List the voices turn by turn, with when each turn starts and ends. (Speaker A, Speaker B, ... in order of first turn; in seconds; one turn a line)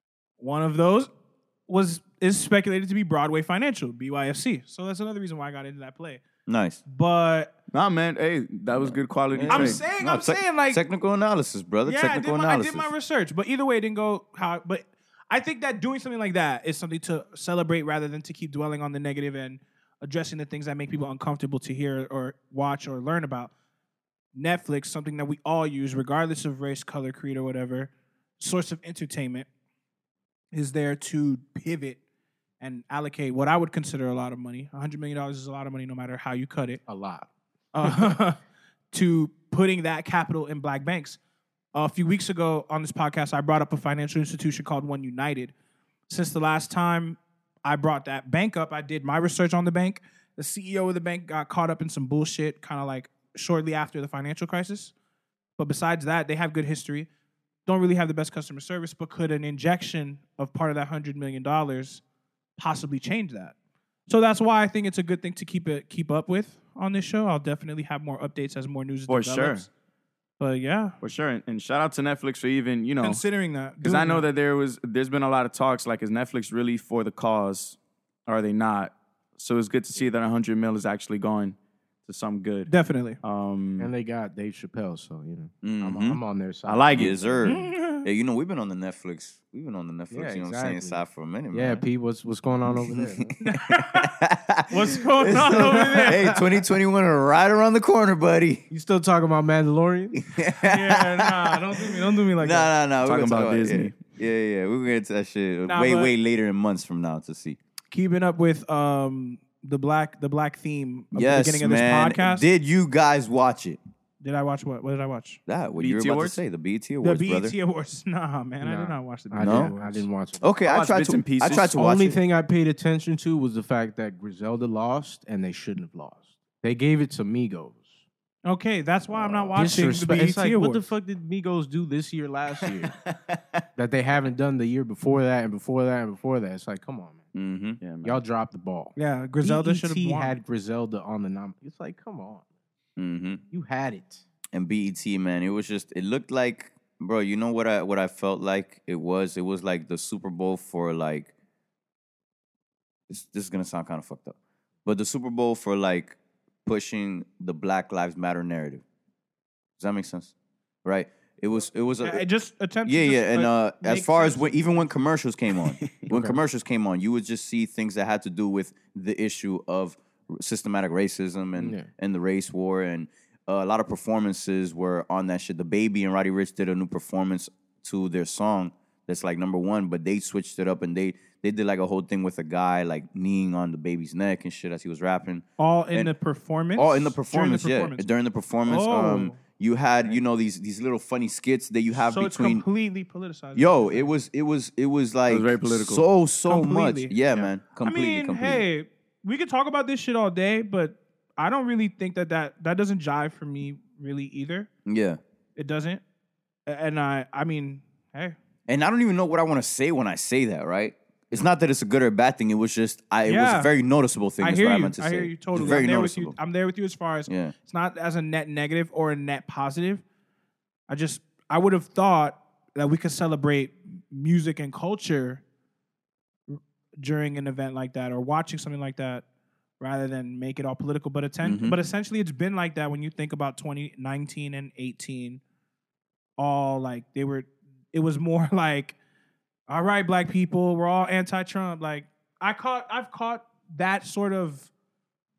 Speaker A: 0.4-1.1
Speaker A: 1.7-6.2
Speaker B: 6.5-6.8
Speaker A: 6.8-7.5
Speaker C: 7.7-9.8
Speaker B: 8.7-12.9
Speaker A: 9.5-10.8
Speaker A: 11.8-23.5
Speaker A: 24.3-29.5
Speaker A: 30.5-32.0
Speaker A: 32.6-36.8
Speaker D: 36.9-37.3
Speaker A: 37.7-38.4
Speaker D: 37.8-38.1
Speaker A: 38.9-41.2
Speaker A: 41.7-45.5
Speaker A: 46.1-54.9
Speaker A: 55.6-57.1
Speaker A: 57.6-62.0
Speaker A: 62.6-63.5
Speaker A: 64.1-69.7
Speaker C: 69.1-69.7
Speaker A: 70.4-71.0
Speaker C: 71.0-73.2
Speaker A: 73.0-74.2
Speaker C: 73.8-83.9
Speaker A: 82.7-83.2
Speaker D: 83.8-87.7
Speaker B: 85.6-86.2
Speaker C: 86.7-87.2
Speaker B: 86.9-91.8
Speaker A: 87.4-88.0
Speaker D: 90.1-93.3
Speaker B: 92.7-98.7
Speaker A: 93.4-94.1
Speaker A: 94.7-96.3
Speaker D: 95.4-96.4
Speaker D: 98.7-100.2
Speaker B: 100.2-107.6
Speaker A: 100.6-102.7
Speaker C: 103.0-104.1
Speaker A: 105.7-106.1
Speaker A: 107.9-112.5
Speaker B: 111.1-113.8
Speaker A: 114.2-115.4
Speaker B: 115.5-117.5
Speaker C: 115.8-116.4
Speaker A: 117.0-119.9
Speaker D: 118.6-120.5
Speaker B: 119.4-119.7
Speaker B: 120.4-122.2
Speaker C: 120.6-121.9
Speaker D: 121.5-128.0
Speaker A: 128.4-130.9
Speaker B: 129.2-129.6
Speaker D: 129.6-132.9
Speaker D: 133.8-137.3
Speaker B: 137.3-137.8
Speaker C: 137.8-138.2
Speaker D: 138.0-142.4
Speaker A: 138.9-140.3
Speaker B: 143.0-143.4
Speaker D: 143.5-144.2
Speaker B: 144.5-151.3
Speaker B: 153.1-158.8
Speaker B: 159.8-160.3
Speaker B: 160.8-162.3
Speaker A: 162.0-164.9
Speaker B: 162.8-186.1
Speaker C: 165.8-166.1
Speaker D: 166.1-166.4
Speaker D: 171.6-171.9
Speaker A: 185.6-188.1
Speaker B: 186.8-192.6
Speaker A: 188.7-189.4
Speaker A: 192.0-194.1
Speaker B: 193.5-198.6
Speaker C: 195.3-196.1
Speaker A: 196.4-197.2
Speaker A: 197.8-204.7
Speaker B: 204.9-205.2
Speaker A: 205.6-206.0
Speaker A: 206.7-208.4
Speaker B: 208.7-216.4
Speaker A: 213.2-213.7
Speaker A: 214.4-220.0
Speaker B: 217.3-217.5
Speaker A: 220.9-225.4
Speaker A: 226.5-229.2
Speaker A: 229.8-235.4
Speaker B: 231.4-231.8
Speaker A: 236.4-238.9
Speaker A: 239.7-244.7